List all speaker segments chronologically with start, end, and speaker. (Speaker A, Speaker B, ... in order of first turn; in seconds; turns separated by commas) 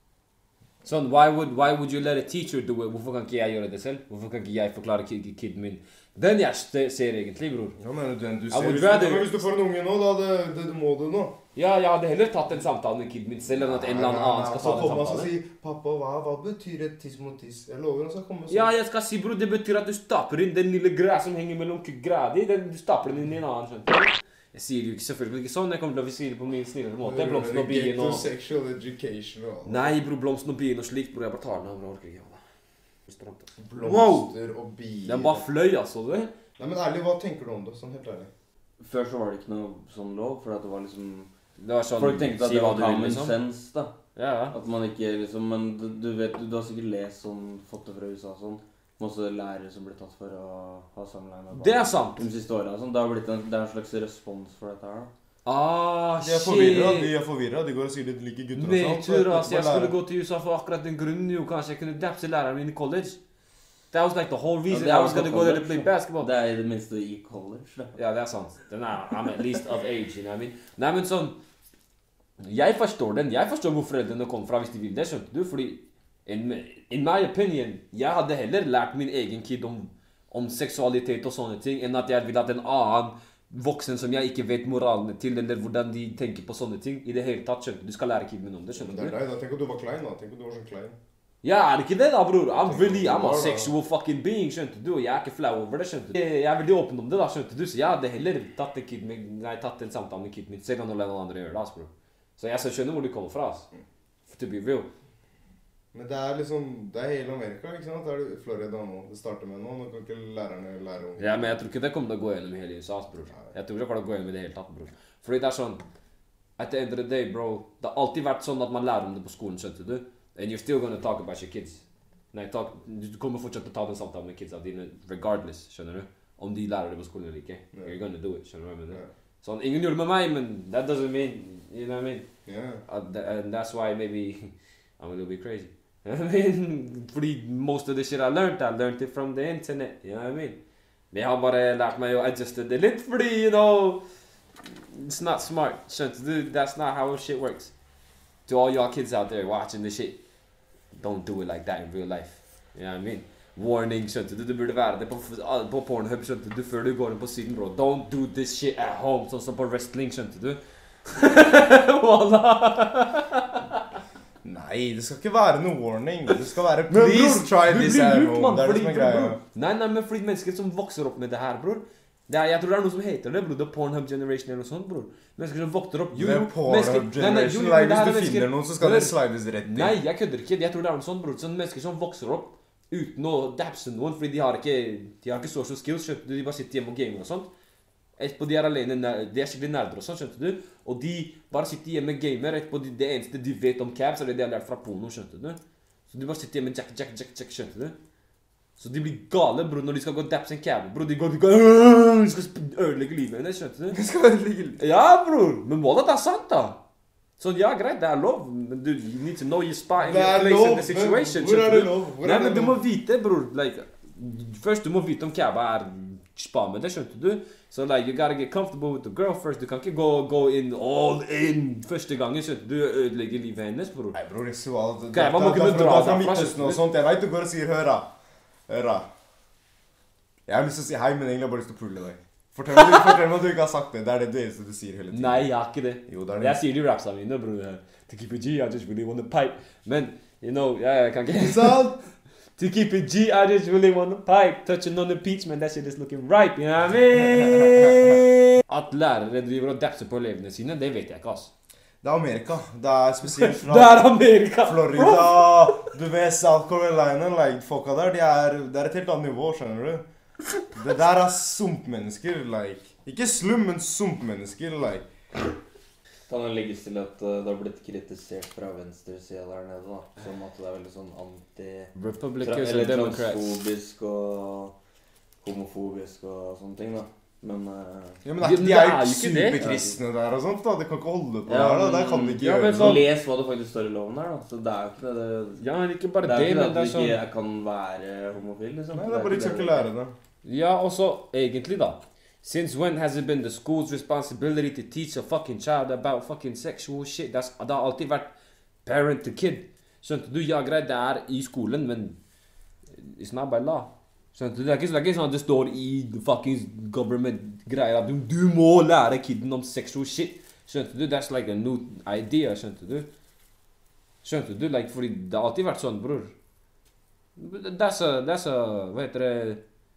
Speaker A: 0.8-7.8, Speaker B: 7.8-11.4, Speaker A: 8.5-9.4, Speaker A: 11.6-15.3, Speaker B: 13.5-18.7, Speaker A: 18.5-28.3, Speaker B: 27.0-29.9, Speaker A: 29.6-32.4, Speaker A: 33.1-34.3, Speaker B: 33.6-35.5, Speaker A: 35.0-36.3, Speaker B: 36.6-38.3, Speaker C: 38.8-41.3, Speaker A: 41.6-43.4, Speaker C: 42.0-43.9, Speaker A: 44.2-44.6, Speaker C: 44.5-55.1, Speaker A: 51.5-52.3, Speaker A: 55.5-57.1, Speaker B: 56.2-60.0, Speaker A: 58.5-63.2, Speaker A: 63.9-66.3, Speaker C: 64.7-68.0, Speaker A: 68.0-71.4, Speaker A: 72.4-89.2, Speaker B: 88.8-91.0, Speaker A: 91.4-103.7, Speaker B: 92.5-93.7, Speaker A: 104.3-104.9, Speaker B: 105.9-111.5, Speaker A: 111.2-115.8, Speaker A: 116.6-132.3, Speaker B: 132.5-132.8, Speaker A: 132.9-140.6, Speaker A: 141.1-144.0, Speaker A: 144.6-147.7, Speaker A: 148.5-150.2, Speaker A: 150.9-163.8, Speaker B: 164.4-169.4, Speaker A: 166.9-187.5, Speaker B: 176.1-180.0, Speaker A: 188.2-197.9, Speaker A: 198.8-204.0, Speaker B: 203.9-204.8, Speaker A: 204.8-206.8, Speaker A: 207.4-224.2, Speaker B: 210.0-212.8, Speaker B: 224.1-228.1, Speaker A: 225.1-226.8, Speaker B: 228.7-229.1, Speaker B: 230.5-235.5, Speaker A: 235.1-241.9, Speaker B: 236.1-236.6, Speaker B: 241.4-242.0, Speaker A: 242.6-251.5, Speaker B: 252.0-254.0, Speaker A: 253.3-255.9, Speaker B: 254.6-260.0, Speaker B: 260.7-265.1, Speaker C: 266.3-274.7, Speaker A: 271.9-273.6, Speaker C: 275.4-278.2, Speaker B: 278.2-283.0, Speaker A: 278.4-279.6, Speaker C: 279.6-280.0, Speaker C: 281.5-285.6, Speaker A: 282.2-283.1, Speaker A: 285.6-287.2, Speaker C: 286.2-289.9, Speaker B: 288.9-290.1, Speaker A: 290.4-298.3, Speaker A: 298.9-302.2, Speaker A: 302.9-313.1, Speaker A: 314.2-316.3, Speaker A: 317.4-319.6